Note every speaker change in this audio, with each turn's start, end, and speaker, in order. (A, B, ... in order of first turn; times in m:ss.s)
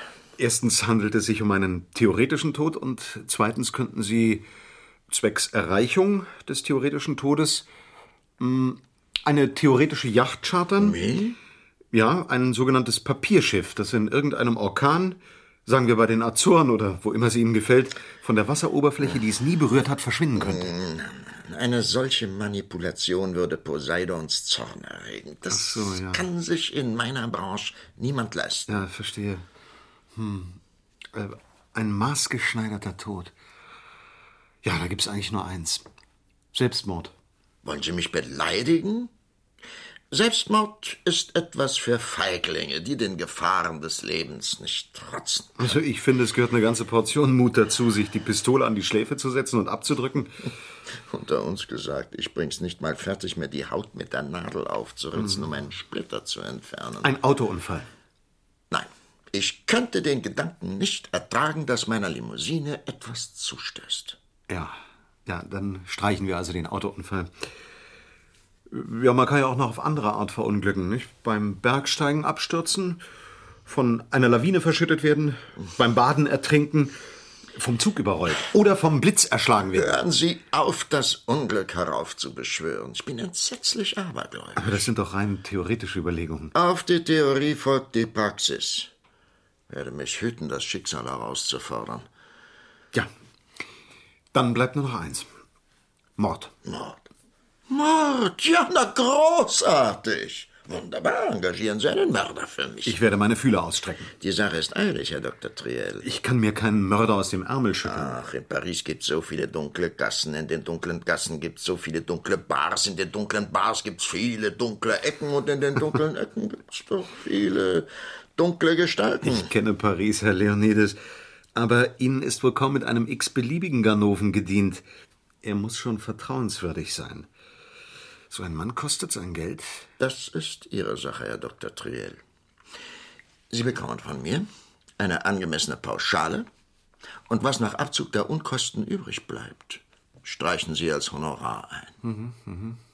0:00.4-0:04.4 A
0:05.1-0:07.7 A
0:08.4-0:11.0 A
0:10.8-0:11.4 B
0:11.9-0:20.7 A
0:20.4-0:28.8 B
0:25.5-0:26.2 A
0:28.7-0:29.4 A
0:30.1-0:30.6 A
0:31.1-0:33.3 A
0:34.6-0:35.8 A
0:36.5-0:37.1 A
0:37.6-0:39.1 B
0:40.1-0:45.8 B
0:45.6-0:50.3 A
0:51.0-0:57.2 B
0:55.2-0:55.4 A
0:57.0-0:57.9 A
0:58.7-1:04.2 B
1:04.5-1:07.3 A
1:08.7-1:13.0 A
1:13.6-1:16.9 A
1:17.5-1:19.9 A
1:19.7-1:24.9 B
1:24.6-1:26.5 A
1:26.5-1:28.9 B
1:29.7-1:32.1 B
1:34.3-1:35.3 A
1:36.2-1:36.5 A
1:36.6-1:37.0 B
1:37.7-1:43.0 B
1:42.8-1:44.1 A
1:44.2-1:46.1 B
1:46.0-1:48.1 A
1:47.8-1:59.5 B
1:59.2-2:01.0 A
2:01.5-2:04.8 A
2:05.4-2:07.3 A
2:08.3-2:09.8 A
2:10.0-2:12.2 B
2:13.5-2:14.5 B
2:15.0-2:16.5 B
2:17.3-2:22.0 B
2:22.0-2:22.8 A